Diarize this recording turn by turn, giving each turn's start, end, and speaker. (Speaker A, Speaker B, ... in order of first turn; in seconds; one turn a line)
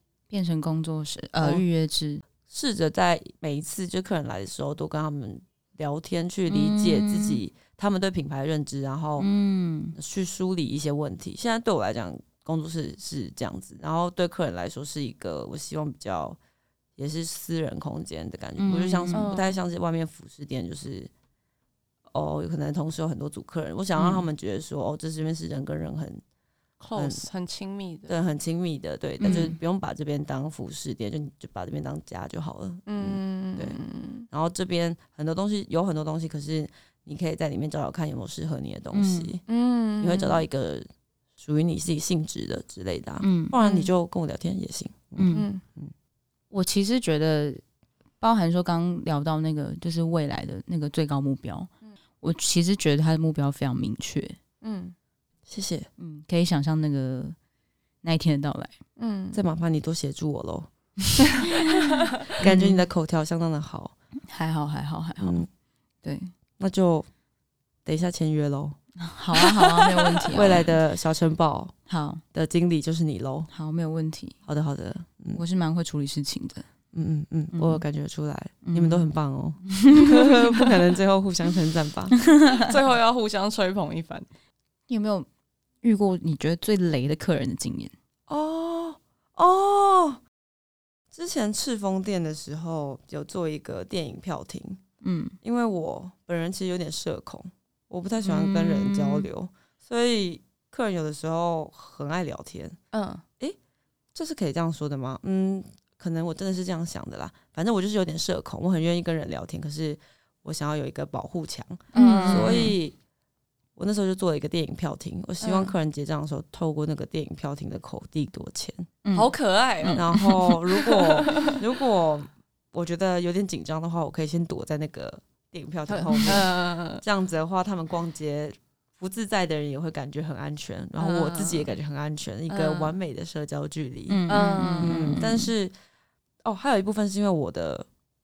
Speaker A: 0.3-2.2
Speaker B: 2.5-9.3
Speaker A: 6.5-7.4
Speaker A: 9.2-9.9
Speaker B: 9.9-16.4
Speaker B: 17.0-21.1
Speaker A: 18.6-19.3
Speaker C: 19.1-19.5
Speaker B: 22.1-26.2
Speaker A: 23.9-24.2
Speaker C: 26.8-28.1
Speaker B: 26.9-27.2
Speaker B: 28.1-33.8
Speaker A: 29.2-29.6
Speaker C: 32.9-34.3
Speaker B: 34.3-39.4
Speaker A: 38.9-39.3
Speaker C: 39.5-40.4
Speaker B: 40.0-40.9
Speaker B: 41.4-45.9
Speaker A: 43.2-43.5
Speaker C: 43.6-43.9
Speaker A: 45.2-45.5
Speaker C: 45.3-45.6
Speaker A: 46.5-47.6
Speaker A: 48.2-51.7
Speaker A: 52.2-54.4
Speaker C: 54.6-54.9
Speaker B: 55.5-55.9
Speaker A: 56.0-57.4
Speaker A: 58.0-58.7
Speaker C: 59.0-59.4
Speaker B: 59.3-60.7
Speaker A: 61.4-62.8
Speaker B: 62.4-63.9
Speaker A: 64.3-65.4
Speaker B: 65.2-65.5
Speaker A: 66.0-66.3
Speaker B: 66.6-67.1
Speaker B: 67.8-68.8
Speaker A: 69.0-70.7
Speaker C: 69.4-70.2
Speaker B: 70.3-71.7
Speaker A: 71.9-72.2
Speaker B: 72.3-73.5
Speaker A: 73.5-74.3
Speaker B: 74.5-75.4
Speaker A: 75.3-76.7
Speaker B: 76.9-82.1
Speaker A: 77.5-77.8
Speaker A: 78.6-79.0
Speaker A: 79.7-80.8
Speaker A: 82.2-82.7
Speaker C: 82.5-84.3
Speaker A: 84.9-85.3
Speaker A: 85.8-87.9
Speaker B: 88.3-90.2
Speaker B: 91.1-94.8
Speaker A: 95.0-95.4
Speaker B: 95.4-102.8
Speaker A: 98.2-99.3
Speaker C: 102.9-103.2
Speaker B: 104.1-113.0
Speaker C: 111.9-112.7
Speaker A: 111.9-112.8
Speaker B: 113.8-118.9
Speaker C: 115.4-115.7
Speaker A: 119.0-119.3
Speaker C: 119.1-121.6
Speaker A: 119.8-120.6
Speaker B: 119.9-135.7
Speaker C: 125.9-127.0
Speaker C: 131.0-131.7
Speaker C: 132.5-132.9
Speaker A: 134.1-135.5
Speaker C: 134.3-135.0
Speaker B: 136.4-137.9